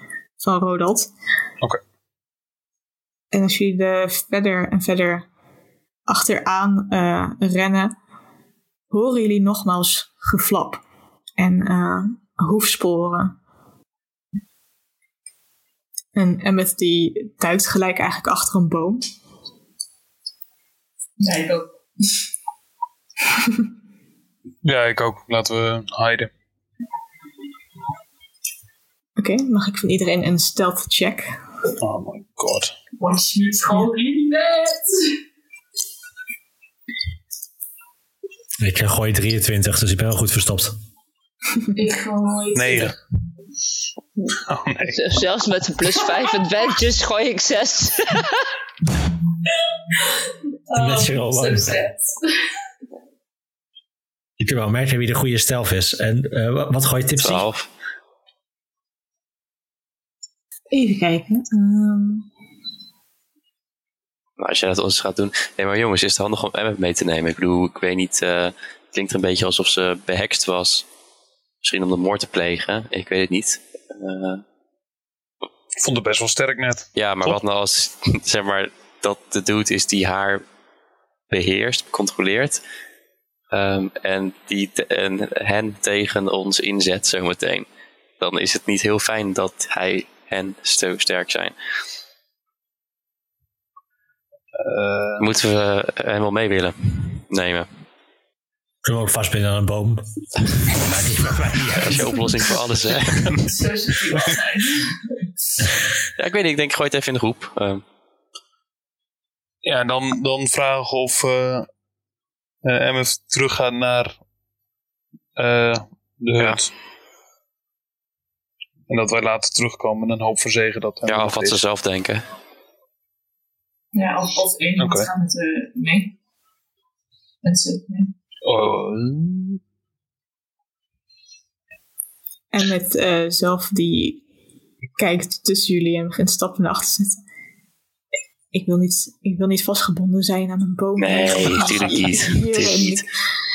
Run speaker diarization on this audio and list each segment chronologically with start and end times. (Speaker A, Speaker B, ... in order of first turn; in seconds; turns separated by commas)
Speaker A: 0.4-1.1, Speaker A: 3.3-5.3, Speaker A: 6.1-8.0, Speaker A: 8.9-10.8, Speaker A: 11.4-13.4, Speaker A: 16.1-19.1, Speaker B: 21.2-22.1, Speaker C: 24.6-26.3, Speaker A: 29.2-31.3, Speaker C: 31.8-32.8, Speaker B: 33.0-35.2, Speaker D: 38.6-40.8, Speaker B: 41.8-43.0, Speaker C: 42.5-43.0, Speaker C: 44.4-45.0, Speaker E: 44.8-48.5, Speaker B: 50.7-52.4, Speaker D: 50.8-51.8, Speaker D: 54.4-57.5, Speaker F: 57.2-57.7, Speaker A: 60.7-62.3, Speaker F: 64.4-70.8, Speaker F: 71.6-74.4, Speaker C: 75.8-77.4, Speaker F: 77.0-80.4, Speaker F: 81.3-82.6, Speaker F: 83.5-87.7, Speaker F: 88.2-91.5, Speaker C: 94.5-95.3, Speaker F: 95.2-97.7, Speaker D: 98.8-100.0, Speaker D: 100.6-102.7, Speaker F: 101.7-103.5, Speaker B: 103.5-105.0, Speaker F: 106.2-107.8, Speaker C: 109.6-111.7, Speaker C: 112.6-114.2, Speaker C: 115.4-116.7, Speaker C: 118.9-121.6, Speaker F: 121.1-122.3, Speaker B: 123.9-126.2, Speaker C: 124.8-125.1, Speaker B: 127.4-128.1, Speaker C: 128.4-129.6, Speaker A: 132.5-134.2, Speaker A: 135.0-137.2, Speaker A: 138.5-143.1, Speaker F: 141.0-143.0